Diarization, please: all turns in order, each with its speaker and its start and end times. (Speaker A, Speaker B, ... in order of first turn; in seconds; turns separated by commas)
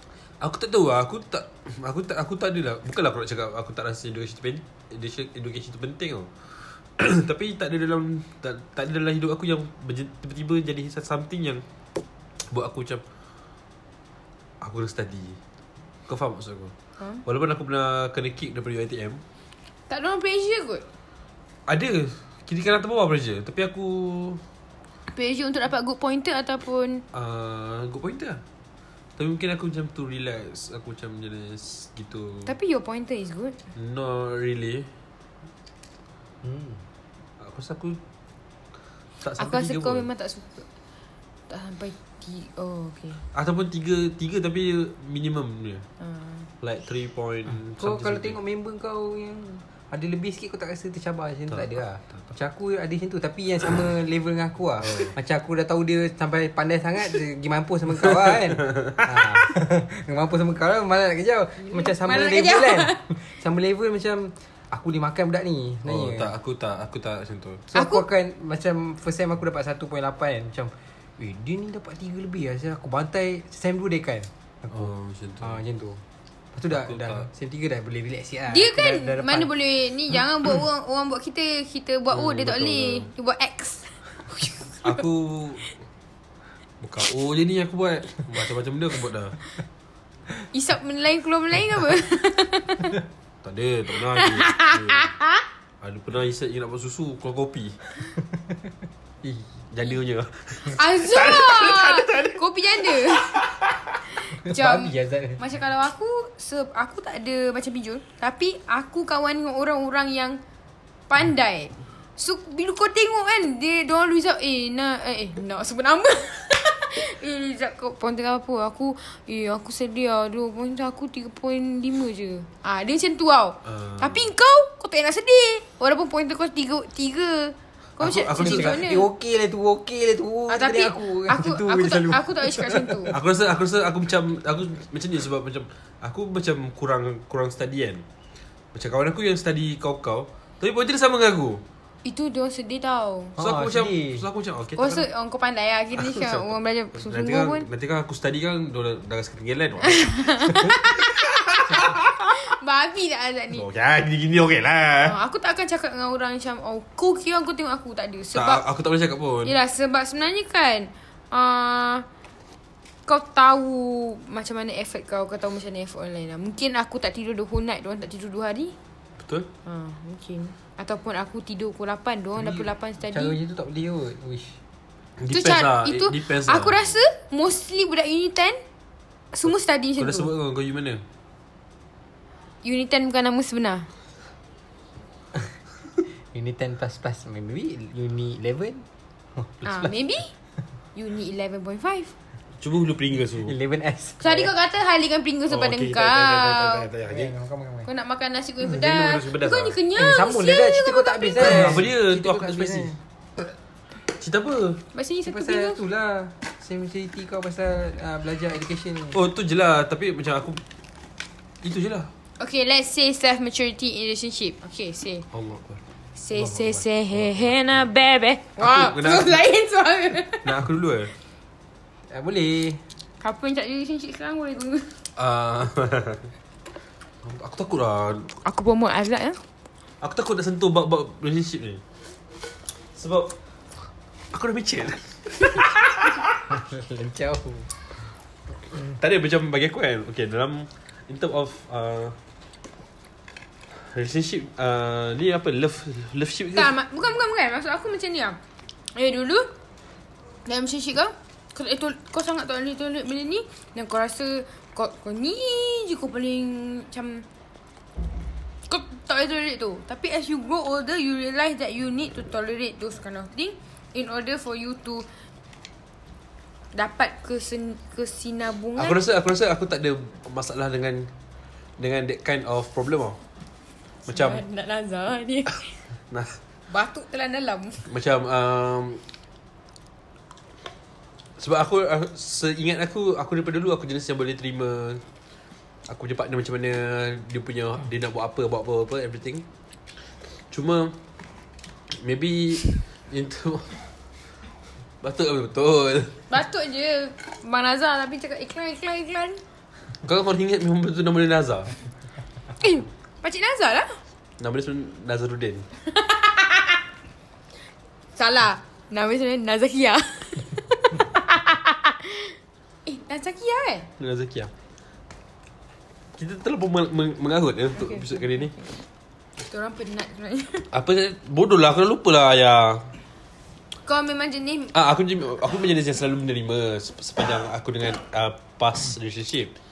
Speaker A: 0.4-11.6, Speaker A: 12.5-13.0, Speaker A: 14.6-15.4, Speaker A: 16.1-16.7, Speaker A: 17.3-19.2, Speaker B: 19.9-20.9, Speaker A: 21.7-24.4, Speaker B: 25.1-27.1, Speaker A: 27.1-28.4, Speaker A: 29.2-32.5, Speaker B: 32.5-33.6, Speaker A: 33.8-34.9, Speaker C: 36.4-36.8, Speaker A: 37.4-38.0, Speaker A: 39.2-40.1, Speaker B: 39.4-40.7, Speaker B: 41.5-43.2, Speaker A: 43.3-45.9, Speaker B: 46.0-46.5, Speaker A: 46.6-48.4, Speaker C: 47.8-66.3, Speaker A: 51.7-52.0, Speaker A: 54.8-55.1, Speaker A: 58.5-59.4, Speaker B: 61.6-63.1, Speaker A: 65.9-67.7, Speaker C: 67.7-74.9, Speaker B: 67.7-68.0, Speaker A: 74.7-75.6, Speaker C: 75.4-76.0, Speaker C: 76.5-79.5, Speaker A: 76.7-77.2, Speaker B: 78.5-85.0, Speaker A: 82.1-83.1, Speaker A: 84.8-85.6, Speaker A: 86.8-89.4, Speaker B: 90.5-93.0, Speaker A: 93.4-95.1, Speaker B: 94.1-95.4, Speaker A: 95.8-97.8, Speaker C: 98.2-99.5, Speaker A: 99.7-102.4, Speaker B: 100.7-103.5, Speaker A: 103.0-103.7, Speaker B: 104.2-110.4, Speaker C: 104.4-105.4, Speaker B: 111.1-129.1, Speaker A: 123.7-124.3, Speaker A: 128.0-128.8, Speaker C: 128.3-133.2, Speaker B: 130.5-133.1, Speaker A: 133.1-138.0, Speaker A: 138.7-141.6, Speaker B: 142.1-143.3, Speaker C: 143.4-144.3, Speaker A: 143.4-145.1, Speaker B: 144.8-147.7, Speaker A: 146.0-150.1, Speaker B: 149.8-151.2, Speaker A: 150.6-152.4, Speaker B: 152.3-153.6, Speaker A: 153.5-155.2, Speaker B: 155.0-158.6, Speaker A: 158.3-159.6, Speaker B: 159.4-162.1, Speaker B: 163.1-168.8, Speaker A: 169.2-169.5, Speaker B: 169.7-173.4, Speaker C: 172.4-174.6, Speaker A: 175.2-176.8, Speaker B: 175.3-178.6, Speaker B: 179.3-180.3, Speaker A: 180.0-181.0, Speaker B: 182.6-183.9, Speaker C: 186.3-189.9, Speaker B: 189.6-190.3, Speaker B: 190.9-192.1, Speaker A: 192.6-193.6, Speaker C: 193.4-194.5, Speaker B: 194.2-196.9, Speaker A: 195.5-197.3, Speaker C: 197.1-197.9, Speaker B: 197.9-201.8, Speaker A: 198.6-199.8, Speaker C: 199.9-203.0, Speaker A: 201.4-202.9, Speaker A: 204.1-204.8, Speaker B: 204.9-205.8, Speaker C: 205.3-209.2, Speaker A: 209.1-210.6, Speaker A: 211.6-212.1, Speaker B: 212.4-215.2, Speaker A: 215.3-215.8, Speaker B: 216.2-220.6, Speaker A: 216.3-217.4, Speaker A: 218.6-219.4, Speaker A: 220.4-221.1, Speaker C: 222.1-222.8, Speaker B: 223.2-224.9, Speaker A: 225.2-226.3, Speaker A: 227.2-228.3, Speaker B: 228.4-229.4, Speaker A: 230.0-231.8, Speaker A: 232.9-233.3, Speaker A: 234.3-236.4, Speaker C: 236.5-237.7, Speaker A: 239.0-242.2, Speaker A: 243.7-246.7, Speaker B: 246.6-248.4, Speaker B: 248.9-249.5, Speaker B: 250.5-257.2, Speaker B: 258.7-265.1, Speaker B: 266.8-269.0, Speaker A: 268.8-271.1, Speaker A: 271.8-273.2, Speaker B: 274.1-275.7, Speaker A: 274.1-274.4, Speaker A: 276.1-276.4, Speaker B: 276.7-277.9, Speaker A: 277.9-279.0, Speaker A: 281.4-285.0, Speaker A: 285.9-289.4, Speaker A: 290.5-290.9, Speaker A: 292.0-293.8, Speaker A: 295.0-296.2, Speaker B: 296.3-299.4, Speaker A: 300.1-301.7, Speaker B: 302.6-304.0, Speaker A: 304.4-305.7, Speaker B: 305.9-306.8, Speaker B: 308.2-313.9, Speaker A: 314.0-314.5, Speaker A: 316.2-318.6, Speaker B: 317.8-318.7, Speaker B: 319.5-320.7, Speaker A: 320.7-322.9, Speaker B: 323.9-324.7, Speaker A: 324.7-329.5